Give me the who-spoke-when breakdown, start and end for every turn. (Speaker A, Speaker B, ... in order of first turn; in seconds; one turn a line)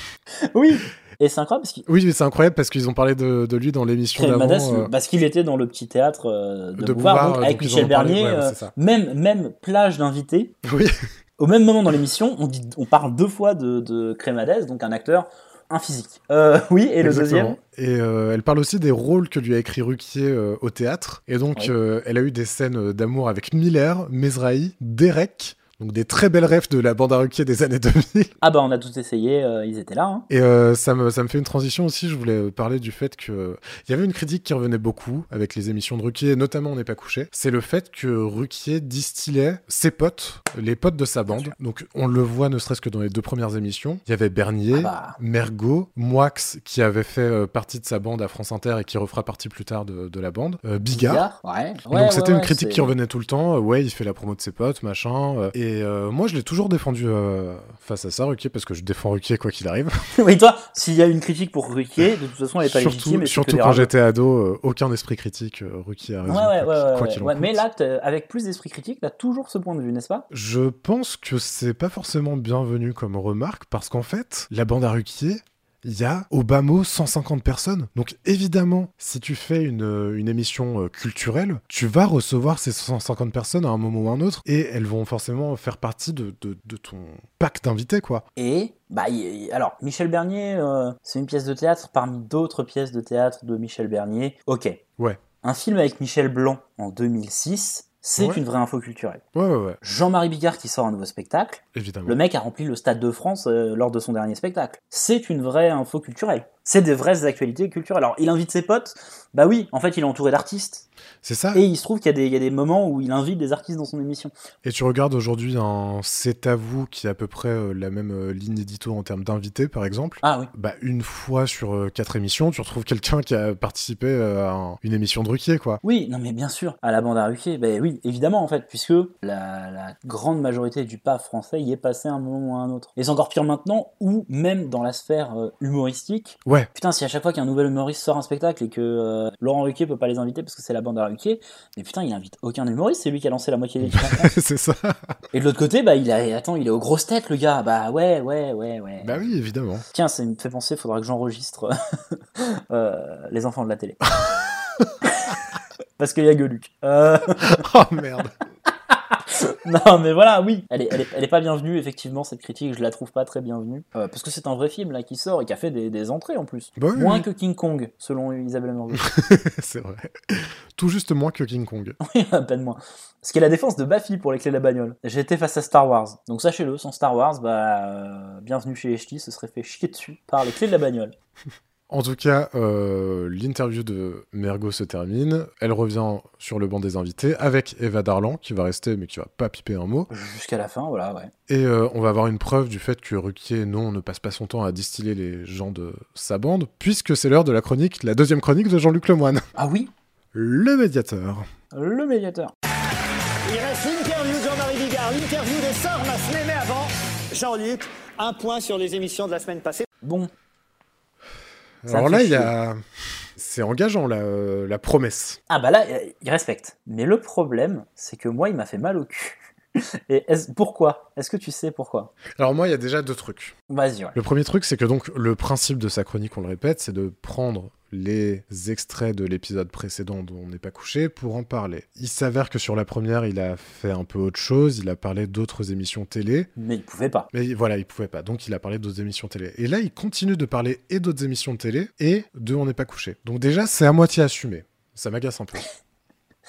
Speaker A: 0.5-1.9
Speaker B: 1.9-4.9
Speaker A: 4.2-10.5
Speaker B: 6.8-8.7
Speaker B: 10.6-11.0
Speaker A: 11.4-17.6
Speaker B: 17.0-28.3
Speaker A: 28.4-30.2
Speaker B: 30.3-51.2
Speaker A: 41.3-41.5
Speaker A: 44.7-45.2
Speaker A: 50.9-52.9
Speaker B: 51.9-59.9
Speaker A: 60.1-63.9
Speaker B: 62.6-67.6
Speaker A: 66.2-70.2
Speaker B: 70.3-88.2
Speaker A: 88.3-94.8
Speaker A: 95.4-99.2
Speaker B: 98.2-98.4
Speaker B: 99.3-99.8
Speaker A: 99.8-110.8
Speaker B: 101.7-102.2
Speaker B: 111.2-111.6
Speaker A: 111.5-114.3
Speaker B: 114.6-125.8
Speaker A: 120.2-120.5
Speaker A: 125.8-144.3
Speaker B: 136.4-136.7
Speaker B: 143.8-145.2
Speaker A: 145.3-149.2
Speaker B: 149.0-149.8
Speaker A: 149.9-154.0
Speaker B: 154.2-154.9
Speaker A: 155.0-155.3
Speaker A: 156.0-157.6
Speaker B: 157.4-158.3
Speaker A: 158.9-169.0
Speaker B: 166.8-167.2
Speaker B: 169.0-172.0
Speaker A: 172.0-181.1
Speaker B: 181.9-190.1
Speaker A: 190.1-191.3
Speaker B: 191.5-199.5
Speaker A: 199.6-199.9
Speaker B: 200.3-201.5
Speaker A: 201.7-202.5
Speaker C: 203.4-209.8
Speaker A: 210.0-210.3
Speaker B: 211.8-215.4
Speaker A: 211.9-212.5
Speaker A: 215.5-222.1
Speaker B: 222.3-223.6
Speaker A: 223.7-224.1
Speaker B: 224.1-236.5
Speaker A: 236.6-237.3
Speaker B: 237.3-245.6